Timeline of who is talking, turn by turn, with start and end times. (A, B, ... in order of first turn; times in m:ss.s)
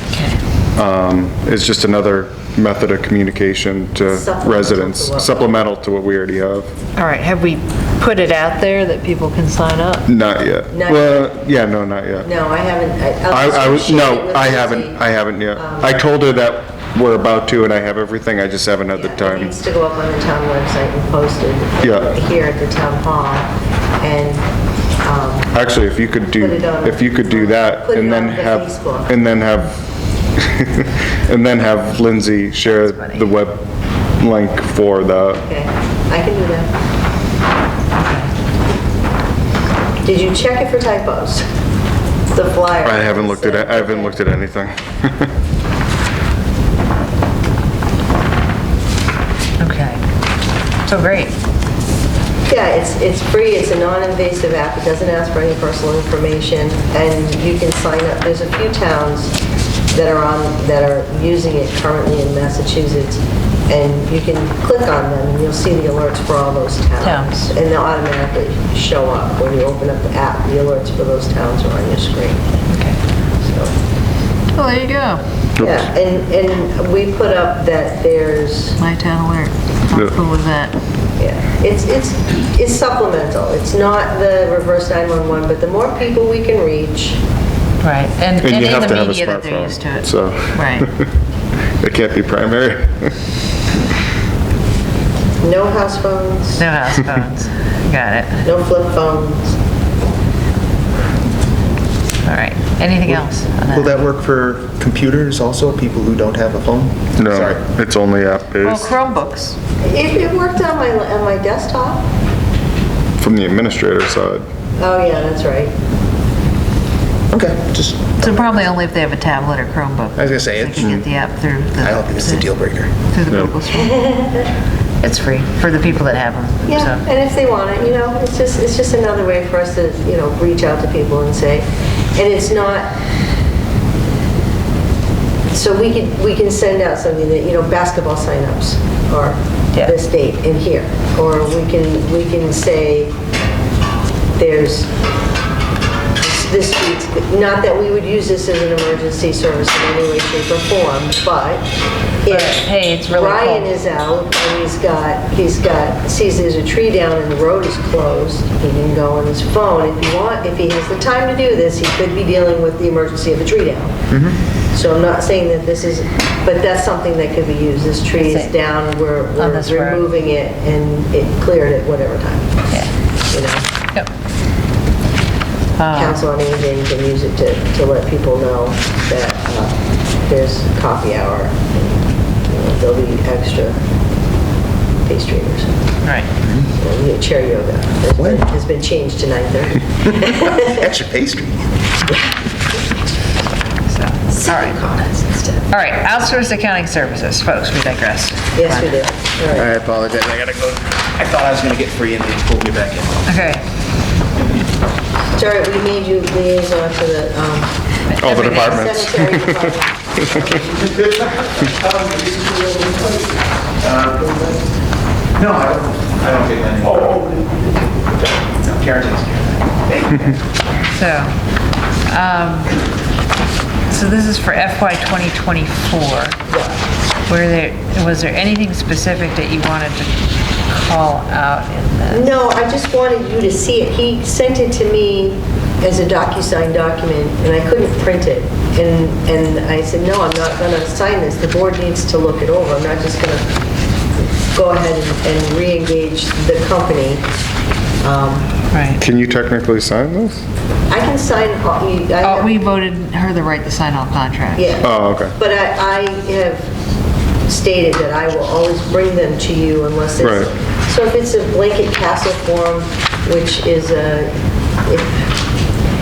0:00.1-0:00.4 A
0:00.8-0:06.7 B
0:04.1-0:05.6 C
0:07.0-0:10.1 A
0:10.1-0:12.3 B
0:10.7-0:11.3 C
0:12.2-0:16.0 C
0:13.3-0:19.6 B
0:18.9-0:24.5 C
0:21.8-0:22.1 B
0:25.0-0:25.5 C
0:25.5-0:29.8 B
0:26.4-0:29.1 C
0:30.4-0:35.4 B
0:32.7-0:33.3 A
0:35.4-0:36.7 C
0:38.0-0:38.3 A
0:40.0-0:41.4 C
0:42.3-0:44.2 C
0:42.8-0:45.3 B
0:49.6-0:50.0 A
0:50.9-0:51.4 A
0:52.5-0:59.4 C
0:59.9-1:12.5 C
1:07.0-1:07.3 A
1:12.7-1:13.0 A
1:13.4-1:13.7 C
1:14.6-1:15.2 A
1:15.6-1:18.8 C
1:15.6-1:15.9 B
1:18.8-1:20.8 A
1:21.2-1:27.2 C
1:27.8-1:30.9 A
1:28.4-1:31.1 B
1:31.8-1:33.1 B
1:35.4-1:36.6 C
1:36.6-1:38.4 A
1:38.4-1:39.6 C
1:42.2-1:44.0 A
1:43.1-1:47.6 D
1:47.2-1:48.9 B
1:48.6-1:49.6 A
1:49.8-1:52.1 C
1:53.2-1:54.4 B
1:54.8-1:55.7 C
1:57.3-1:58.3 D
1:58.2-2:02.5 A
2:00.2-2:01.0 D
2:01.8-2:02.9 D
2:03.0-2:04.0 A
2:03.6-2:04.5 C
2:05.0-2:07.0 A
2:06.7-2:12.9 C
2:15.5-2:23.1 C
2:24.4-2:24.9 C
2:26.2-2:31.7 C
2:32.2-2:44.0 C
2:32.3-2:33.7 A
2:44.7-2:52.5 C
2:48.2-2:48.5 A
2:49.4-2:50.0 A
2:53.3-2:53.6 C
2:55.8-2:56.2 A
2:55.9-3:03.8 C
3:05.0-3:05.7 C
3:06.0-3:06.3 A
3:06.7-3:10.9 C
3:08.2-3:08.4 D
3:10.2-3:11.7 D
3:13.9-3:14.9 A
3:14.3-3:15.6 C
3:15.7-3:19.0 A
3:18.6-3:19.8 C
3:19.5-3:23.2 D
3:23.3-3:23.6 A
3:25.3-3:27.7 C
3:28.1-3:28.8 A
3:28.2-3:29.6 B
3:28.6-3:30.0 C
3:30.2-3:30.5 B
3:30.3-3:34.6 D
3:35.4-3:40.4 D
3:41.0-3:41.3 A
3:42.1-3:42.8 A
3:43.9-3:46.4 A
3:46.5-3:46.8 C
3:47.3-3:50.1 A
3:50.7-3:52.3 A
3:52.1-4:03.5 C
4:04.5-4:07.2 C
4:08.0-4:08.5 C
4:08.7-4:09.0 A
4:09.0-4:10.4 B
4:10.9-4:12.6 C
4:12.2-4:14.7 A
4:14.6-4:16.7 C
4:14.8-4:15.3 B
4:17.5-4:25.3 C
4:20.2-4:20.5 B